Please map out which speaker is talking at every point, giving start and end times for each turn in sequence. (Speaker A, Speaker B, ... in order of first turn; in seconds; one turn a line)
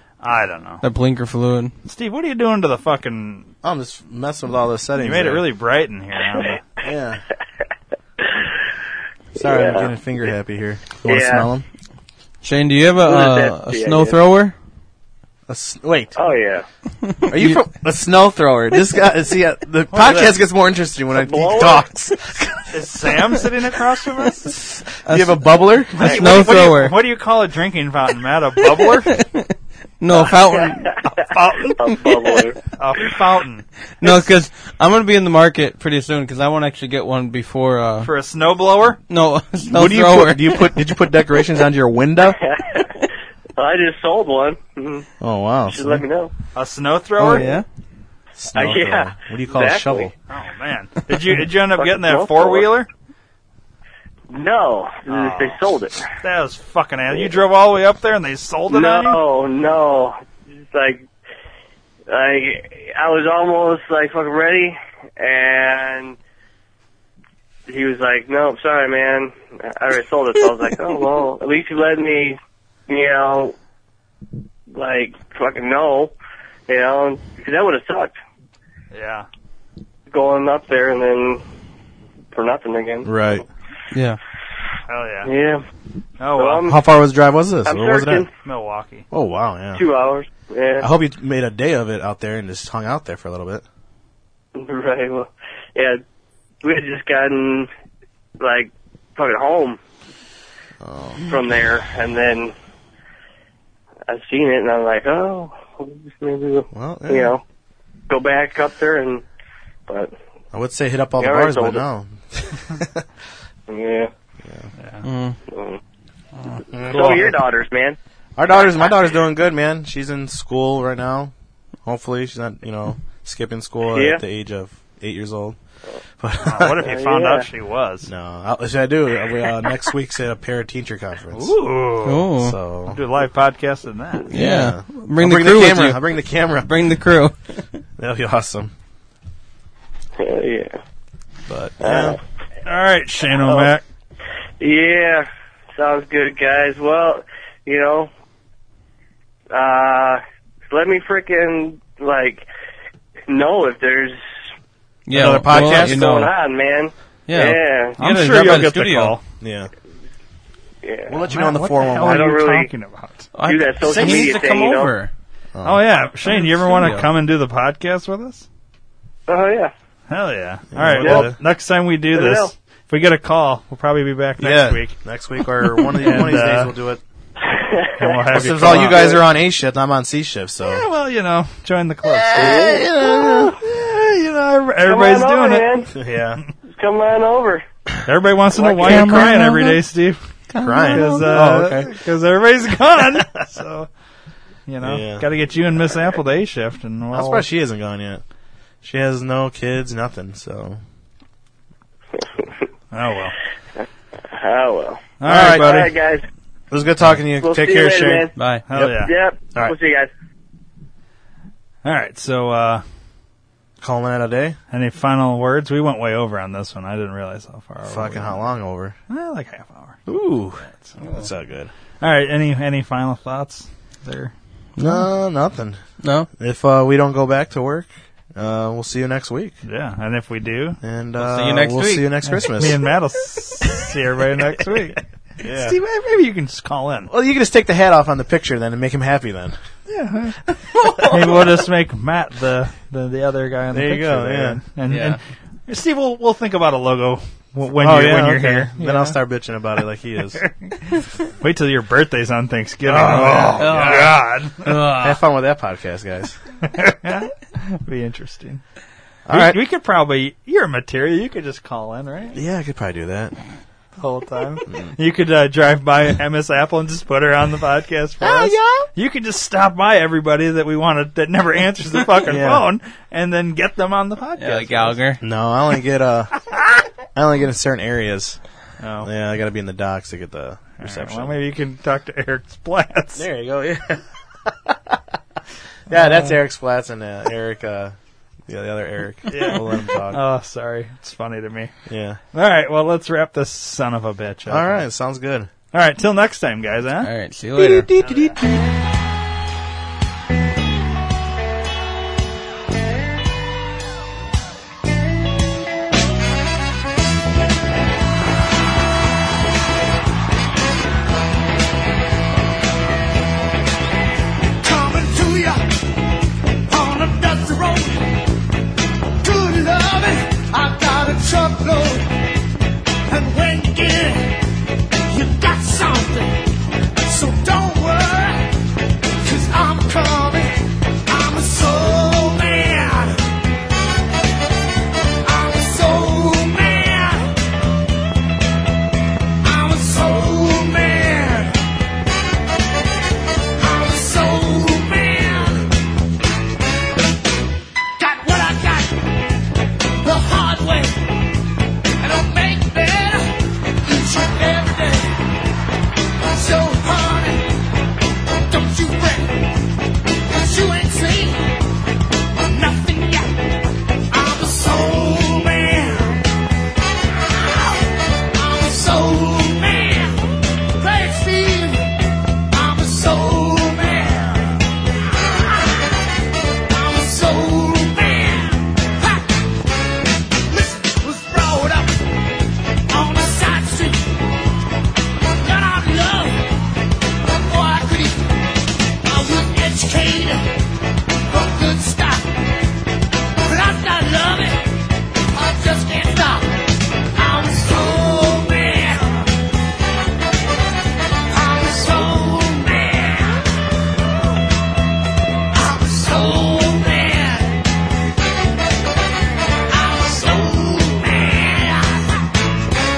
Speaker A: 0.2-0.8
Speaker B: 0.8-1.7
Speaker A: 1.9-3.5
Speaker C: 3.6-5.5
Speaker A: 5.0-6.6
Speaker D: 6.2-6.6
Speaker C: 6.8-7.2
Speaker D: 8.2-8.5
Speaker C: 9.3-11.7
Speaker D: 9.4-9.9
Speaker D: 11.0-11.5
Speaker B: 12.4-14.5
Speaker D: 13.0-14.2
Speaker C: 15.5-16.1
Speaker D: 16.2-16.6
Speaker B: 17.2-17.6
Speaker C: 17.3-22.6
Speaker A: 19.9-20.4
Speaker D: 21.1-21.9
Speaker A: 22.7-24.6
Speaker C: 25.0-26.4
Speaker B: 25.1-25.4
Speaker B: 25.9-27.0
Speaker A: 26.0-29.1
Speaker B: 29.1-31.0
Speaker D: 30.1-31.1
Speaker A: 31.1-31.8
Speaker D: 31.7-33.1
Speaker B: 31.9-32.4
Speaker A: 32.8-34.1
Speaker B: 34.0-38.1
Speaker A: 38.0-39.0
Speaker B: 39.1-40.8
Speaker C: 39.7-42.4
Speaker D: 42.2-42.9
Speaker D: 43.6-45.1
Speaker C: 45.2-46.0
Speaker D: 45.7-46.3
Speaker A: 46.5-47.5
Speaker B: 47.2-47.6
Speaker C: 48.4-50.1
Speaker D: 48.5-50.1
Speaker A: 50.3-52.9
Speaker D: 51.8-52.7
Speaker D: 54.3-56.1
Speaker A: 55.1-55.6
Speaker A: 56.2-59.2
Speaker D: 58.7-61.1
Speaker D: 62.1-66.2
Speaker D: 67.7-73.5
Speaker D: 74.7-76.1
Speaker D: 76.7-78.2
Speaker A: 78.9-79.3
Speaker D: 80.1-81.4
Speaker D: 82.3-83.4
Speaker C: 83.1-83.4
Speaker B: 83.9-84.2
Speaker A: 84.9-85.3
Speaker D: 85.2-85.6
Speaker A: 86.2-86.7
Speaker D: 86.3-86.8
Speaker C: 86.7-88.3
Speaker D: 87.7-88.3
Speaker A: 88.4-89.0
Speaker C: 89.1-89.8
Speaker D: 89.8-90.9
Speaker C: 90.8-93.6
Speaker D: 94.5-96.0
Speaker D: 96.6-97.7
Speaker D: 98.4-99.8
Speaker C: 100.8-101.2
Speaker D: 101.2-102.5
Speaker D: 104.1-107.4
Speaker C: 106.7-107.3
Speaker D: 108.1-109.2
Speaker D: 109.9-110.1
Speaker C: 110.5-113.1
Speaker D: 111.2-111.8
Speaker D: 113.7-114.1
Speaker C: 114.4-114.7
Speaker A: 114.8-115.0
Speaker B: 115.0-115.4
Speaker D: 115.5-115.8
Speaker C: 116.7-117.4
Speaker D: 116.8-118.0
Speaker C: 118.4-121.3
Speaker C: 121.8-125.6
Speaker D: 123.9-124.2
Speaker C: 126.2-126.9
Speaker A: 126.5-128.1
Speaker D: 126.8-127.5
Speaker C: 128.1-131.6
Speaker A: 131.3-132.3
Speaker B: 132.0-132.6
Speaker C: 132.4-133.0
Speaker A: 132.9-134.3
Speaker B: 134.3-136.0
Speaker C: 134.3-136.7
Speaker B: 136.6-137.8
Speaker C: 138.0-138.7
Speaker D: 140.2-140.8
Speaker C: 141.5-142.2
Speaker D: 141.8-142.2
Speaker A: 142.7-143.8
Speaker D: 143.4-143.7
Speaker D: 144.6-148.1
Speaker D: 149.5-152.5
Speaker D: 153.3-154.2
Speaker B: 155.1-156.3
Speaker C: 155.1-156.1
Speaker D: 155.5-158.0
Speaker B: 157.3-159.2
Speaker A: 158.0-159.2
Speaker C: 159.4-159.7
Speaker D: 160.8-161.3
Speaker C: 161.1-162.3
Speaker A: 161.3-163.3
Speaker D: 162.0-162.7
Speaker B: 163.3-165.1
Speaker D: 163.4-164.9
Speaker A: 164.0-164.3
Speaker C: 165.6-165.9
Speaker A: 165.6-168.5
Speaker B: 166.3-167.1
Speaker D: 169.3-169.7
Speaker A: 170.1-175.0
Speaker C: 170.7-171.4
Speaker D: 171.0-171.3
Speaker D: 172.1-172.5
Speaker C: 174.4-177.0
Speaker A: 176.0-176.7
Speaker D: 177.4-179.2
Speaker A: 178.0-179.2
Speaker C: 178.3-180.8
Speaker A: 180.6-182.6
Speaker C: 182.1-183.6
Speaker D: 182.3-183.6
Speaker A: 183.6-185.7
Speaker D: 184.8-185.9
Speaker C: 185.9-186.4
Speaker D: 186.7-187.6
Speaker A: 188.1-190.2
Speaker D: 188.5-189.2
Speaker B: 188.8-189.8
Speaker B: 190.5-191.6
Speaker C: 190.6-191.9
Speaker A: 190.9-193.9
Speaker A: 194.7-197.5
Speaker C: 194.8-195.3
Speaker C: 197.1-198.2
Speaker C: 198.8-200.8
Speaker D: 202.2-202.6
Speaker A: 202.9-203.3
Speaker D: 203.8-206.2
Speaker A: 205.2-205.9
Speaker C: 205.2-205.7
Speaker C: 206.7-208.9
Speaker D: 207.3-208.3
Speaker B: 208.4-208.7
Speaker A: 208.7-209.1
Speaker D: 208.9-210.1
Speaker A: 211.8-212.8
Speaker C: 213.8-214.6
Speaker A: 214.7-218.5
Speaker C: 217.8-219.0
Speaker A: 219.1-220.0
Speaker C: 220.1-221.7
Speaker A: 220.7-220.9
Speaker B: 221.0-221.3
Speaker A: 222.0-224.3
Speaker B: 224.8-225.1
Speaker C: 224.8-225.8
Speaker B: 226.0-226.3
Speaker C: 226.3-229.6
Speaker A: 229.7-230.8
Speaker C: 230.8-232.8
Speaker B: 231.2-232.1
Speaker A: 232.3-237.1
Speaker C: 235.4-235.8
Speaker C: 237.1-239.6
Speaker A: 239.9-240.4
Speaker B: 240.8-241.1
Speaker A: 241.0-249.2
Speaker C: 243.7-244.6
Speaker B: 244.9-245.2
Speaker C: 247.7-250.4
Speaker A: 250.4-255.1
Speaker C: 252.9-254.1
Speaker B: 253.0-255.0
Speaker C: 254.8-256.4
Speaker A: 256.6-258.6
Speaker C: 259.3-259.6
Speaker A: 259.3-262.4
Speaker C: 262.3-263.4
Speaker A: 264.0-275.0
Speaker C: 268.2-268.9
Speaker C: 272.3-272.7
Speaker B: 274.4-275.2
Speaker C: 275.2-276.4
Speaker C: 277.1-278.4
Speaker A: 278.8-279.1
Speaker C: 279.0-281.4
Speaker A: 280.8-283.3
Speaker C: 283.1-285.0
Speaker C: 285.9-287.9
Speaker C: 288.5-290.2
Speaker A: 289.3-291.7
Speaker C: 291.9-292.2
Speaker A: 292.3-294.8
Speaker C: 294.5-295.5
Speaker A: 295.7-297.1
Speaker B: 297.0-297.9
Speaker C: 297.6-298.6
Speaker A: 298.0-298.4
Speaker E: 314.6-315.6
Speaker E: 316.7-318.1
Speaker E: 319.2-322.1
Speaker E: 323.1-324.4
Speaker E: 325.1-326.3
Speaker E: 327.0-328.5
Speaker E: 329.2-330.5
Speaker E: 331.1-333.2
Speaker E: 335.2-337.3
Speaker E: 339.4-341.5
Speaker E: 343.6-345.7
Speaker E: 348.0-349.1
Speaker E: 350.0-351.0
Speaker E: 352.0-353.3
Speaker E: 353.8-355.2
Speaker E: 356.3-357.5
Speaker E: 358.5-359.5
Speaker E: 360.3-361.5
Speaker E: 362.5-363.3
Speaker E: 364.1-366.2
Speaker E: 367.4-367.8
Speaker E: 368.3-371.9
Speaker E: 372.5-374.6
Speaker E: 376.7-379.3
Speaker E: 380.5-382.0
Speaker E: 382.9-384.1
Speaker E: 385.4-386.5
Speaker E: 387.2-388.2
Speaker E: 389.0-390.4
Speaker E: 391.3-392.3
Speaker E: 393.4-394.6
Speaker E: 395.3-399.3
Speaker E: 401.3-403.4
Speaker E: 405.5-407.6
Speaker E: 409.7-412.1